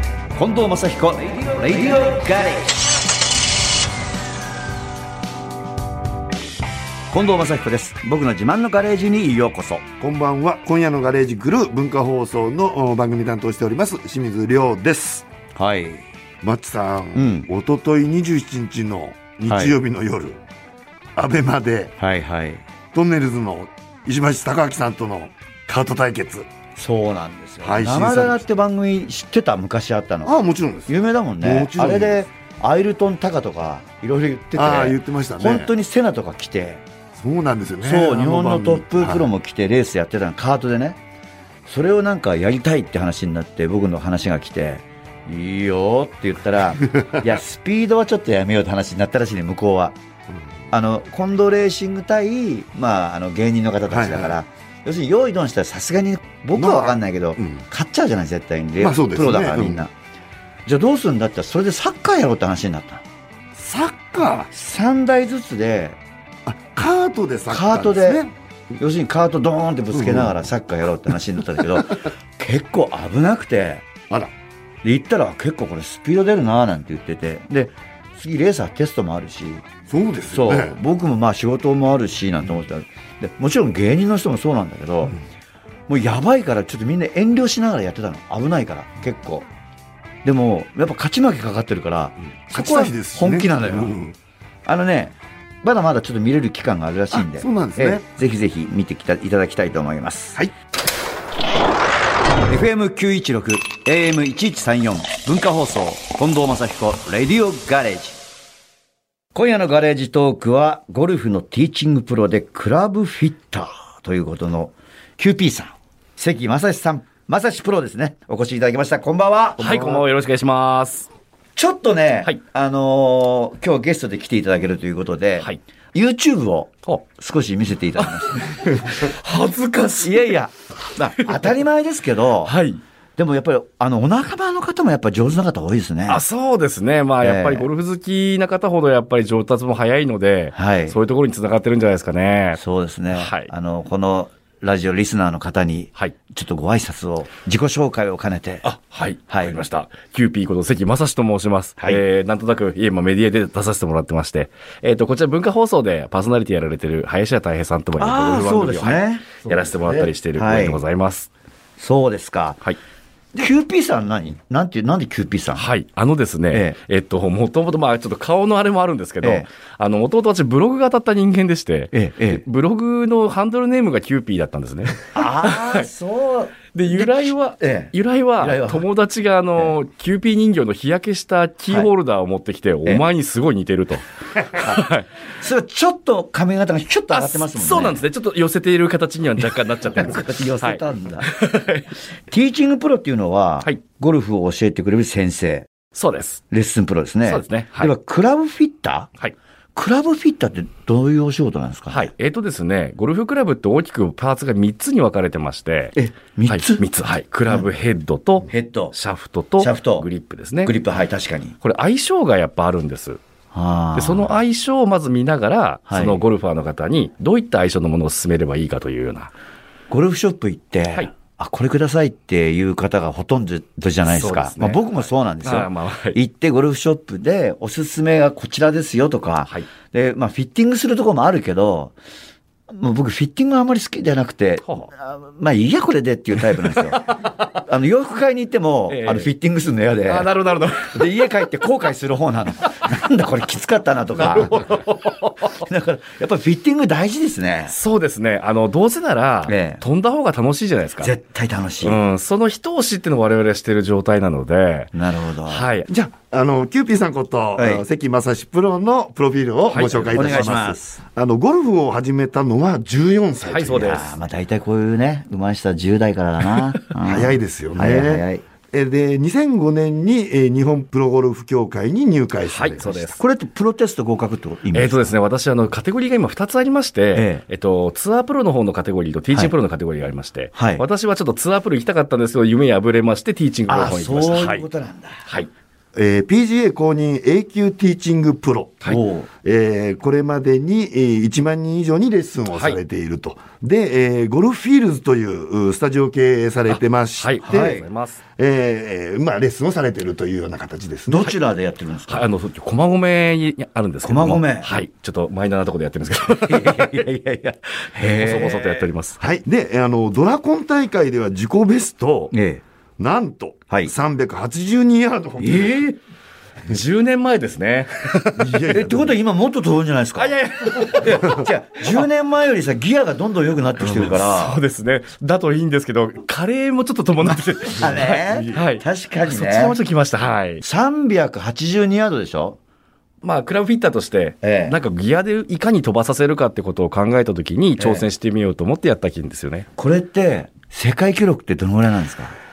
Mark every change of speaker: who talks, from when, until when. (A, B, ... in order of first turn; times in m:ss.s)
0:00.3-0:02.9 A
0:07.1-0:09.8 A
0:10.0-0:15.2 B
0:15.6-0:16.0 A
0:16.4-0:20.4 B
0:17.2-0:17.5 A
0:19.5-0:19.8 A
0:21.2-0:22.0 B
0:22.0-0:22.6 A
0:22.9-0:26.5 B
0:26.8-0:36.8 A
0:27.6-0:28.4 B
0:30.2-0:32.2 B
0:34.6-0:35.7 B
0:37.2-0:39.3 B
0:37.8-0:41.0 A
0:41.7-0:50.0 A
0:46.9-0:47.2 B
0:50.7-0:59.9 A
0:53.9-0:54.4 B
0:56.6-0:57.6 B
0:58.8-0:59.8 B
1:00.7-1:03.0 A
1:03.6-1:04.5 B
1:04.5-1:06.0 A
1:06.5-1:08.3 B
1:07.5-1:08.2 A
1:08.8-1:13.9 A
1:10.0-1:10.3 B
1:14.8-1:19.6 A
1:19.9-1:20.8 B
1:20.3-1:25.2 A
1:25.9-1:29.5 A
1:30.2-1:34.0 A
1:32.5-1:34.2 B
1:34.6-1:40.4 A
1:37.1-1:38.0 B
1:42.4-1:48.2 A
1:49.3-1:59.9 A
1:59.6-2:01.1 C
1:59.6-2:00.0 B
2:01.6-2:09.1 A
2:08.0-2:10.4 C
2:10.0-2:12.6 A
2:11.2-2:11.5 C
2:12.4-2:12.8 C
2:13.2-2:16.2 A
2:16.1-2:22.6 C
2:17.2-2:17.7 A
2:20.6-2:21.0 A
2:22.6-2:28.7 A
2:23.1-2:23.5 C
2:28.6-2:41.3 C
2:29.3-2:29.6 A
2:38.0-2:40.8 A
2:41.8-2:42.6 A
2:43.3-2:45.7 A
2:45.6-2:55.9 C
2:46.5-2:46.8 A
2:49.2-2:49.5 A
2:51.9-2:52.4 A
2:55.1-2:58.9 A
2:56.7-3:05.1 C
3:04.6-3:04.8 A
3:05.4-3:08.0 A
3:07.1-3:11.9 C
3:09.9-3:11.3 A
3:12.3-3:15.7 A
3:15.9-3:16.4 C
3:16.5-3:19.1 A
3:17.3-3:17.9 C
3:19.8-3:22.1 A
3:21.9-3:26.0 C
3:26.0-3:26.8 A
3:26.5-3:30.8 C
3:28.5-3:29.0 A
3:29.6-3:30.1 A
3:30.6-3:31.6 A
3:31.6-3:33.2 C
3:33.5-3:34.3 A
3:34.0-3:39.3 C
3:35.9-3:36.2 A
3:39.9-3:52.0 A
3:44.1-3:46.2 C
3:52.7-4:04.8 A
3:54.6-3:54.9 C
3:58.9-3:59.3 C
4:00.1-4:01.1 C
4:04.2-4:05.5 C
4:05.5-4:07.7 A
4:07.7-4:11.1 C
4:09.5-4:09.8 A
4:11.0-4:12.0 A
4:11.8-4:14.9 C
4:14.9-4:15.7 A
4:15.5-4:15.9 C
4:15.9-4:24.0 B
4:17.6-4:17.8 A
4:19.7-4:20.5 C
4:20.1-4:20.9 A
4:23.4-4:24.1 C
4:23.8-4:28.4 A
4:27.0-4:32.9 B
4:32.4-4:33.2 C
4:32.8-4:35.1 A
4:34.7-4:44.7 C
4:37.1-4:37.4 A
4:40.6-4:40.8 A
4:43.7-4:45.2 A
4:46.0-4:48.8 B
4:48.8-4:49.3 A
4:49.4-4:57.8 B
4:52.5-4:52.8 C
4:57.2-4:58.2 C
4:57.5-4:57.8 A
4:58.4-5:01.3 B
5:01.1-5:02.3 A
5:02.1-5:07.1 C
5:04.0-5:04.8 A
5:06.3-5:08.9 A
5:08.1-5:09.2 C
5:09.2-5:12.3 B
5:12.3-5:12.6 A
5:13.0-5:15.9 B
5:15.4-5:16.0 A
5:16.7-5:18.5 C
5:18.4-5:19.1 B
5:18.6-5:24.6 A
5:20.2-5:21.4 C
5:23.8-5:30.6 C
5:27.2-5:29.8 A
5:28.3-5:28.6 B
5:30.6-5:32.6 A
5:33.2-5:39.7 C
5:34.4-5:34.8 A
5:37.8-5:38.1 A
5:39.8-5:42.4 A